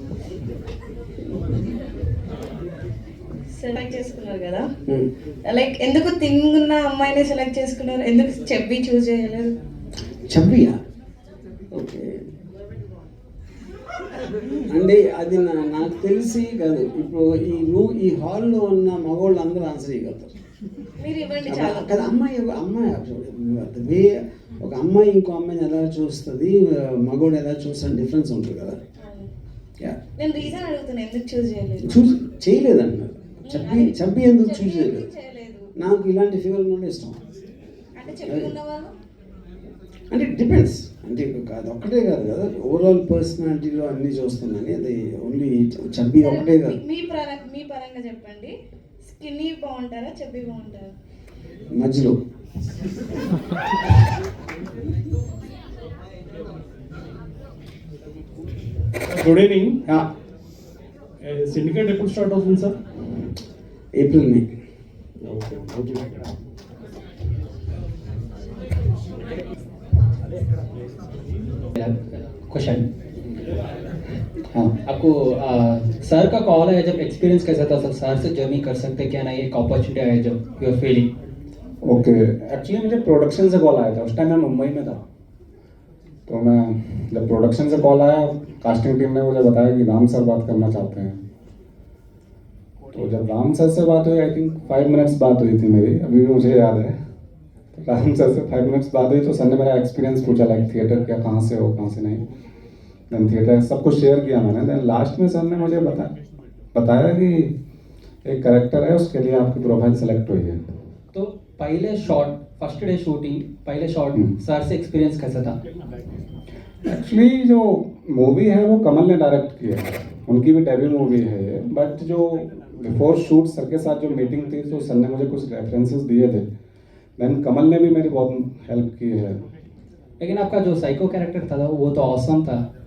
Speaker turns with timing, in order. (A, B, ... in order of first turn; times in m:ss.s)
0:03.5-0:04.7 A
0:05.4-0:09.5 A
0:10.3-0:10.8 B
0:11.7-0:12.2 B
0:14.7-0:20.3 B
0:21.0-0:22.1 A
0:21.5-0:28.8 B
0:29.0-0:29.3 A
0:30.2-0:31.9 A
0:31.8-0:35.0 B
0:33.4-0:35.7 A
0:35.8-0:37.2 B
0:38.0-0:38.9 A
0:38.2-0:38.5 B
0:40.1-0:46.8 B
0:46.2-0:48.5 A
0:49.0-0:50.9 A
0:51.7-0:52.2 B
0:59.1-0:59.8 C
1:01.2-1:02.8 C
1:03.9-1:04.5 B
1:05.2-1:06.2 B
1:11.8-1:12.9 D
1:14.8-1:21.1 D
1:21.8-1:25.0 E
1:26.3-1:31.2 E
1:32.9-1:37.0 E
1:37.8-1:42.2 E
1:43.1-1:46.1 E
1:46.8-1:47.5 E
1:48.2-1:50.6 E
1:51.1-1:55.6 D
1:56.8-2:06.5 E
2:07.2-2:09.4 E
2:10.2-2:12.6 D